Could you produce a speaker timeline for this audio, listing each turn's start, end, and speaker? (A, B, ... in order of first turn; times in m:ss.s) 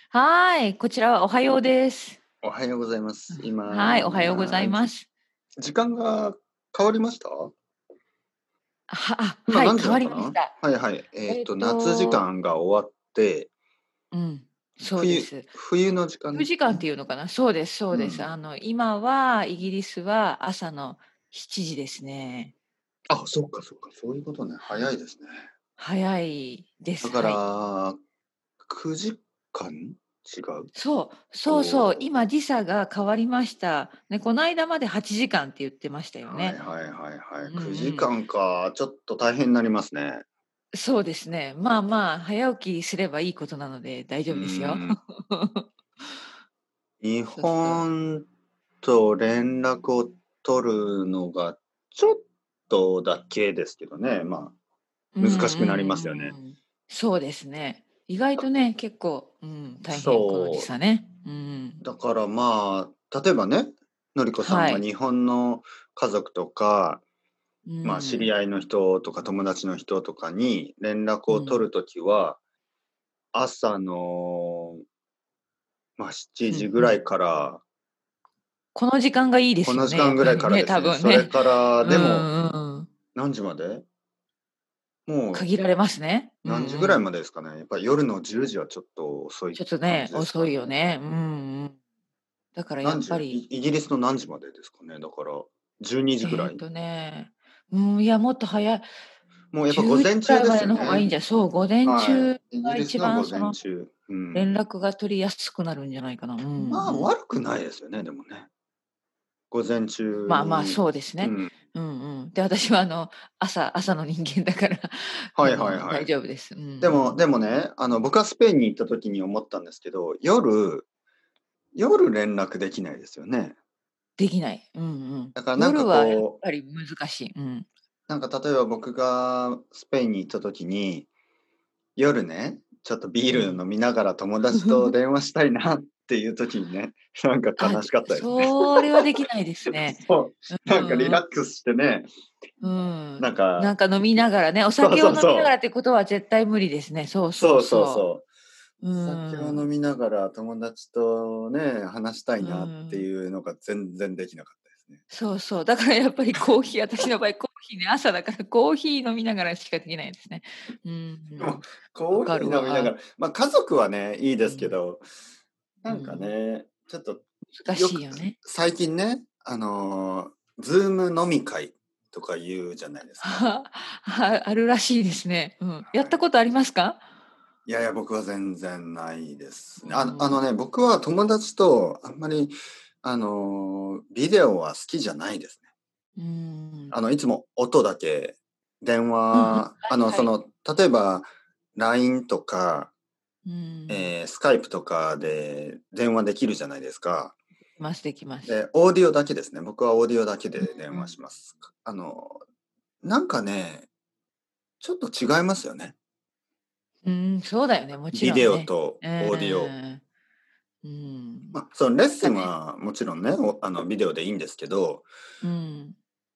0:00.1-0:02.2 A
0:02.4-0:04.9 B
0:03.3-0:05.1 A
0:05.6-0:07.5 B
0:08.9-0:10.6 A
0:09.5-0:13.5 B
0:11.3-0:12.3 A
0:14.1-0:15.5 A
0:15.0-0:16.8 B
0:16.3-0:22.5 A
0:17.9-0:18.3 B
0:23.1-0:25.4 B
0:24.6-0:24.9 A
0:25.8-0:27.4 A
0:27.0-0:28.0 B
0:28.6-0:30.7 B
0:30.7-0:36.6 A
0:31.5-0:32.2 B
0:36.2-0:40.2 B
0:37.4-0:38.1 A
0:40.7-0:45.7 A
0:44.3-0:45.0 B
0:47.0-0:48.3 B
0:47.4-0:47.9 A
0:48.8-0:54.6 B
0:55.2-1:01.8 A
0:55.2-0:56.4 B
0:59.9-1:00.7 B
1:01.8-1:07.0 B
1:04.4-1:04.8 A
1:07.7-1:08.3 A
1:07.8-1:12.4 B
1:11.3-1:11.7 A
1:13.3-1:14.8 B
1:16.0-1:17.6 B
1:16.5-1:17.0 A
1:18.8-1:22.9 A
1:19.6-1:22.3 B
1:23.1-1:23.9 B
1:25.1-1:25.5 B
1:25.3-1:27.0 A
1:26.4-1:30.7 B
1:29.5-1:31.8 A
1:32.6-1:33.4 A
1:32.8-1:36.6 B
1:36.2-1:38.9 A
1:39.5-1:41.1 B
1:39.7-1:43.6 A
1:41.8-1:44.5 B
1:44.3-1:47.1 A
1:46.6-1:48.5 B
1:49.5-1:51.5 B
1:50.3-1:57.2 A
1:55.4-1:56.1 B
1:56.8-2:00.9 B
2:01.8-2:03.6 B
2:04.2-2:07.7 A
2:05.4-2:06.4 B
2:08.1-2:11.1 B
2:12.0-2:19.0 B
2:13.3-2:13.6 A
2:17.6-2:21.2 A
2:19.7-2:22.1 B
2:22.6-2:28.1 A
2:23.2-2:25.6 B
2:27.3-2:28.3 B
2:28.8-2:29.7 A
2:28.9-2:35.0 B
2:32.4-2:33.1 A
2:35.1-2:43.0 A
2:41.4-2:45.0 B
2:44.4-2:44.8 A
2:45.8-2:53.5 B
2:45.9-2:46.3 A
2:47.6-2:48.4 A
2:53.2-2:57.0 A
2:55.9-2:56.2 B
2:57.7-3:05.6 B
2:59.8-3:00.4 A
3:06.2-3:07.0 A
3:06.9-3:12.9 B
3:09.3-3:10.3 A
3:13.5-3:14.1 A
3:13.9-3:17.4 B
3:17.8-3:18.6 A
3:18.5-3:22.4 B
3:20.6-3:21.2 A
3:23.0-3:23.9 B
3:24.8-3:26.0 B
3:27.0-3:30.0 A
3:28.1-3:29.8 B
3:30.8-3:31.6 A
3:31.5-3:35.1 B
3:32.2-3:32.5 A
3:35.4-3:36.0 A